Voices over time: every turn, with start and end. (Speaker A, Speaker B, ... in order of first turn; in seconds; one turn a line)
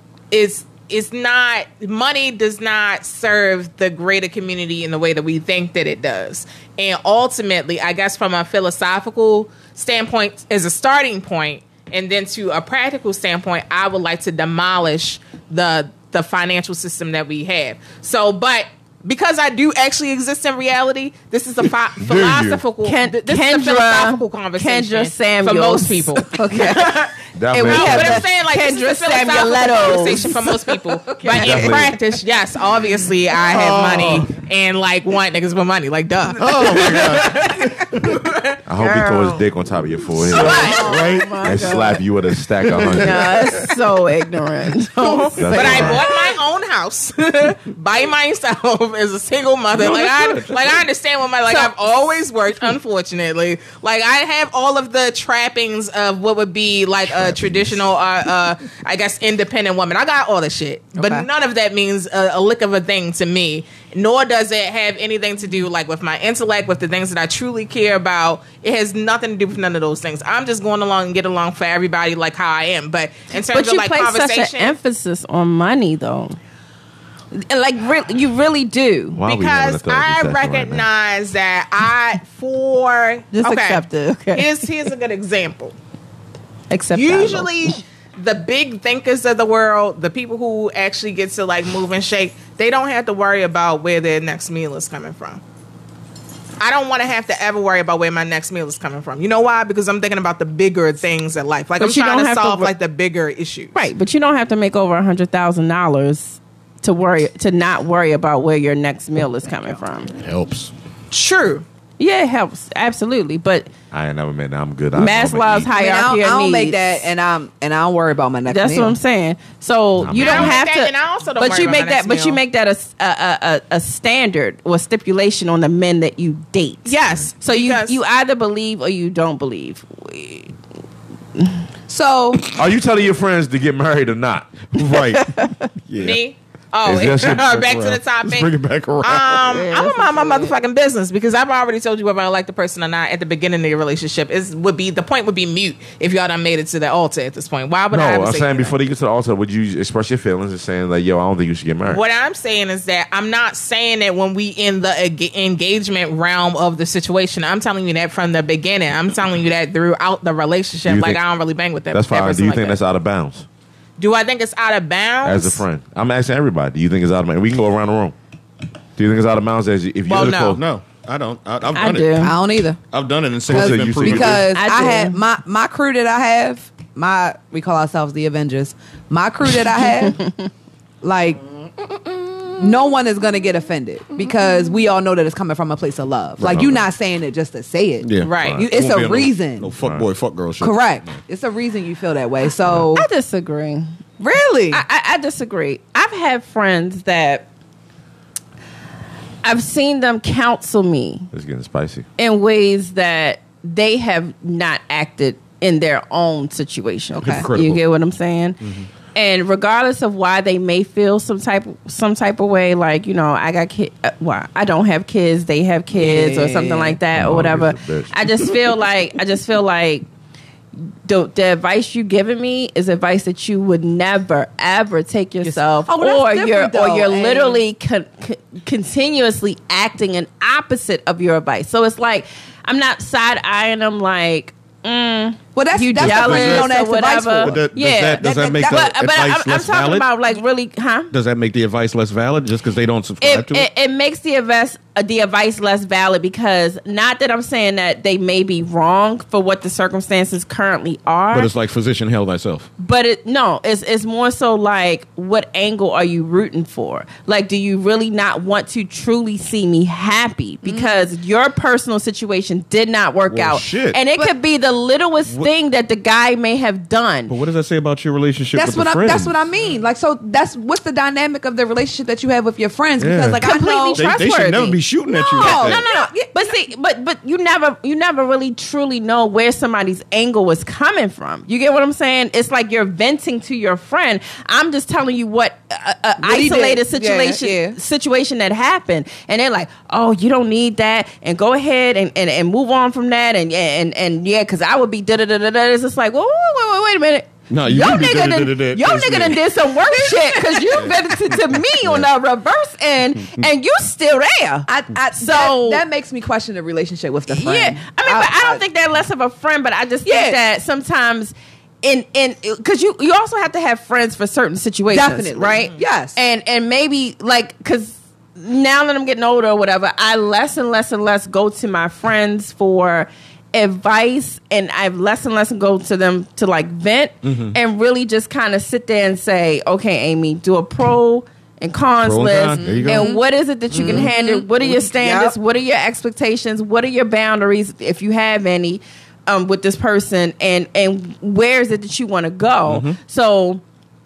Speaker A: 0.3-27.1
Speaker B: 22.0-22.6
Speaker C: 22.8-30.5
Speaker D: 26.4-27.0
Speaker B: 27.3-28.2
Speaker A: 27.6-38.6
Speaker D: 30.7-31.7
Speaker C: 31.3-31.7
Speaker B: 31.3-31.9
Speaker E: 33.4-34.3
Speaker E: 36.3-38.0
Speaker B: 38.6-40.8
Speaker C: 38.8-39.4
Speaker A: 40.2-41.0
Speaker C: 40.3-42.0
Speaker D: 40.4-41.1
Speaker E: 40.5-41.4
Speaker B: 41.4-43.4
Speaker E: 42.6-43.8
Speaker C: 42.8-46.3
Speaker A: 45.0-74.7
Speaker B: 45.4-46.0
Speaker E: 49.7-50.8
Speaker C: 51.5-51.7
Speaker B: 57.3-57.5
Speaker D: 61.0-61.2
Speaker C: 73.5-76.4
Speaker C: 77.3-79.2
Speaker B: 79.1-80.8
Speaker A: 79.2-85.7
Speaker C: 83.3-84.7
Speaker C: 86.7-87.8
Speaker A: 86.9-95.4
Speaker A: 96.6-103.8
Speaker C: 101.8-102.7
Speaker C: 103.7-110.1
Speaker E: 110.2-110.7
Speaker A: 111.1-111.6
Speaker C: 112.0-113.7
Speaker B: 113.9-115.7
Speaker C: 115.0-117.0
Speaker D: 115.6-119.0
Speaker C: 118.5-130.5
Speaker B: 120.0-120.5
Speaker A: 120.1-122.4
Speaker A: 126.8-128.0
Speaker D: 131.9-132.4
Speaker B: 132.4-134.6
Speaker E: 134.7-136.2
Speaker C: 135.1-135.7
Speaker A: 135.9-148.7
Speaker B: 136.8-137.7
Speaker E: 137.3-139.5
Speaker C: 139.4-140.5
Speaker B: 147.9-152.0
Speaker A: 151.9-162.8
Speaker B: 160.9-161.2
Speaker B: 161.9-163.4
Speaker A: 164.0-165.6
Speaker B: 165.2-168.1
Speaker B: 169.0-170.6
Speaker A: 170.1-170.6
Speaker E: 170.3-174.5
Speaker C: 171.7-172.3
Speaker D: 172.2-172.8
Speaker D: 173.5-180.2
Speaker B: 173.5-174.5
Speaker C: 174.5-175.2
Speaker C: 180.1-180.5
Speaker D: 181.0-181.4
Speaker D: 182.6-189.7
Speaker E: 186.4-186.7
Speaker B: 186.5-186.8
Speaker E: 188.0-191.2
Speaker A: 188.2-188.7
Speaker B: 188.4-188.7
Speaker B: 189.8-190.1
Speaker D: 190.6-193.1
Speaker C: 192.9-193.9
Speaker D: 194.2-194.8
Speaker C: 194.7-197.5
Speaker C: 199.4-201.3
Speaker B: 201.3-202.1
Speaker C: 202.2-208.6
Speaker D: 207.2-207.5
Speaker E: 207.2-207.8
Speaker C: 209.1-220.1
Speaker D: 215.9-217.0
Speaker B: 217.1-218.5
Speaker C: 220.8-241.1
Speaker D: 225.4-227.6
Speaker D: 235.5-238.9
Speaker E: 236.0-236.8
Speaker E: 237.4-240.1
Speaker E: 241.1-243.7
Speaker C: 243.2-251.5
Speaker E: 251.3-252.7
Speaker C: 252.8-267.4
Speaker D: 260.6-261.0
Speaker E: 263.3-264.0
Speaker E: 267.3-269.4
Speaker D: 268.5-274.0
Speaker E: 273.0-273.4
Speaker C: 273.4-305.8
Speaker E: 273.9-275.8
Speaker D: 275.1-276.4
Speaker D: 286.2-287.8
Speaker E: 297.5-299.5
Speaker D: 299.9-300.9
Speaker D: 304.7-308.6
Speaker C: 307.3-343.6
Speaker D: 310.0-310.4
Speaker D: 314.9-316.2
Speaker E: 327.2-327.6
Speaker E: 332.0-333.1
Speaker D: 332.6-333.2
Speaker E: 333.7-334.1
Speaker D: 333.7-335.4
Speaker E: 342.7-343.0